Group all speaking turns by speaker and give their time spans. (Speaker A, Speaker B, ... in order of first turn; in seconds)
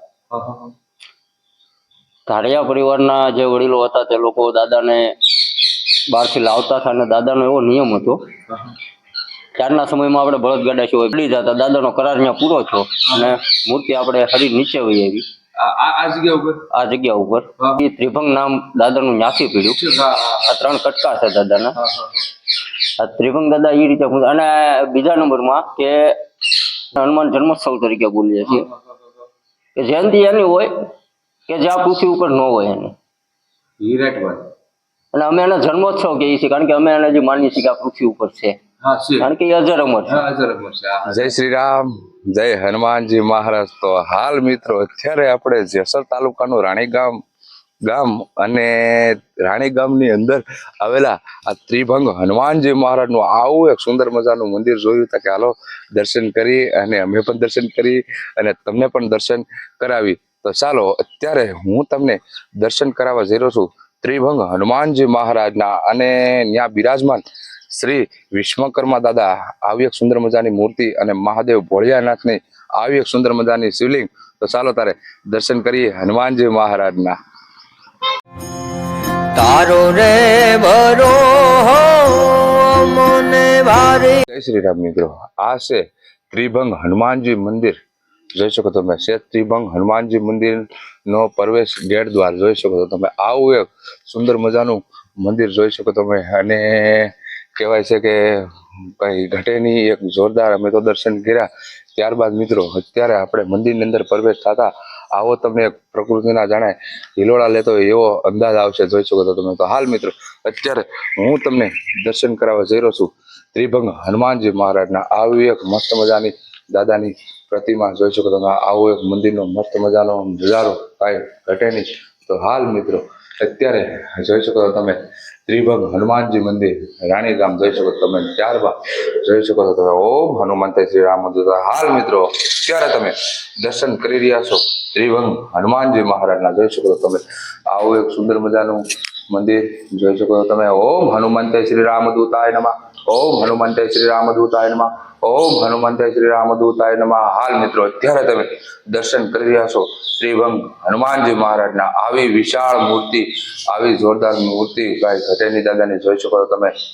Speaker A: 0.3-0.7, 13.1-13.3, 15.6-16.7, 19.8-20.5, 21.8-22.1, 28.4-28.8, 33.8-34.5, 38.8-39.3, 40.1-47.2, 47.9-77.2, 84.3-87.8, 88.4-156.7
Speaker B: 2.3-8.3, 9.6-15.2, 16.7-19.9, 20.4-21.8, 22.8-28.7, 29.8-30.9, 31.5-33.0, 35.1-38.6, 39.2-40.2
Speaker C: 79.3-84.2